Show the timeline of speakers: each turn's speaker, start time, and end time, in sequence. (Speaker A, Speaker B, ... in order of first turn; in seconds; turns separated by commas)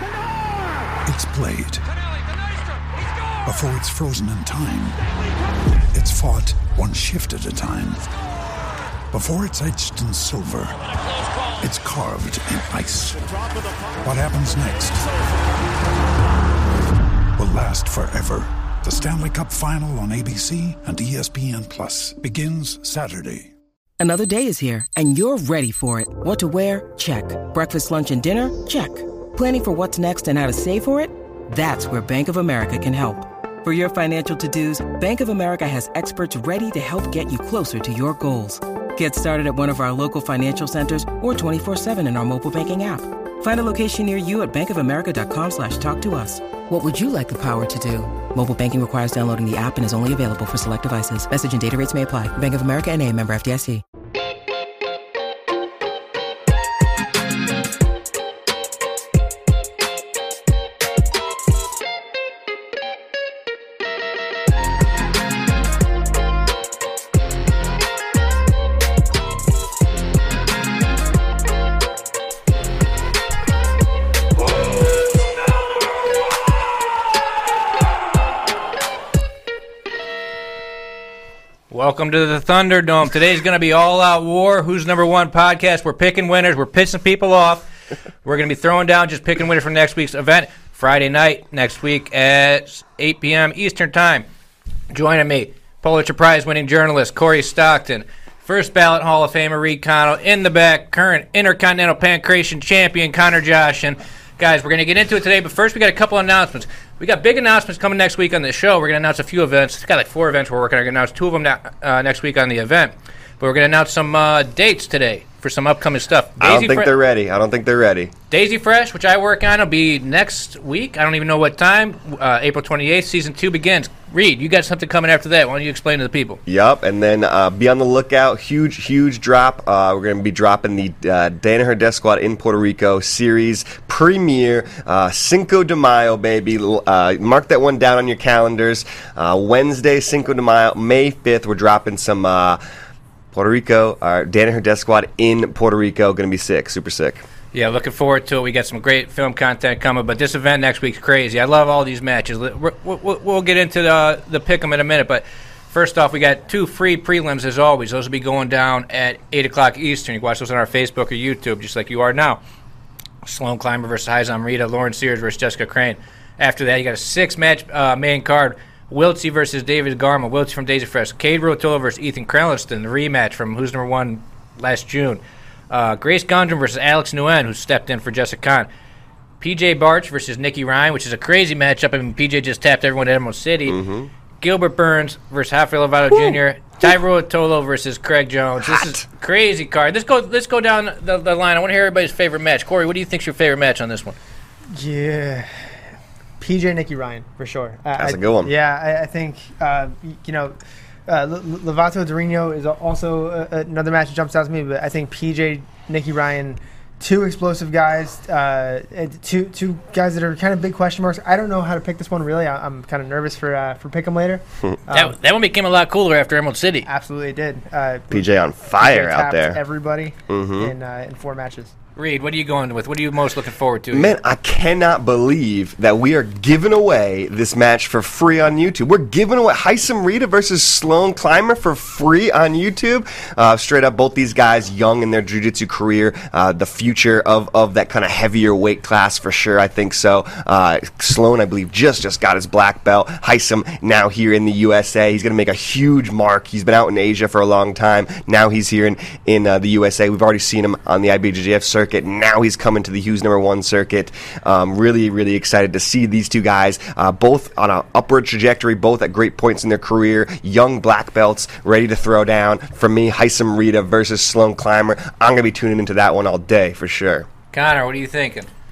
Speaker A: 1.0-1.9, Speaker A: 3.4-5.1, Speaker A: 5.9-8.1, Speaker A: 9.1-10.8, Speaker A: 11.6-13.5, Speaker A: 14.0-15.1, Speaker A: 17.4-23.5, Speaker B: 24.0-53.8, Speaker C: 81.7-87.7, Speaker C: 88.2-94.3, Speaker C: 94.9-116.9, Speaker D: 116.4-118.1, Speaker C: 118.3-126.4, Speaker D: 126.5-142.6, Speaker D: 143.3-147.2, Speaker C: 147.5-162.4, Speaker C: 163.2-178.7, Speaker C: 179.4-183.8, Speaker D: 183.7-184.1, Speaker C: 184.4-194.2, Speaker D: 188.6-189.0, Speaker E: 194.7-195.7, Speaker E: 196.4-200.6, Speaker D: 198.0-198.5, Speaker E: 201.1-215.2, Speaker C: 214.9-216.9, Speaker E: 216.9-218.3, Speaker D: 218.1-219.6, Speaker E: 218.8-221.7, Speaker D: 220.3-220.8, Speaker C: 222.0-224.2, Speaker D: 223.9-267.3, Speaker C: 267.5-268.5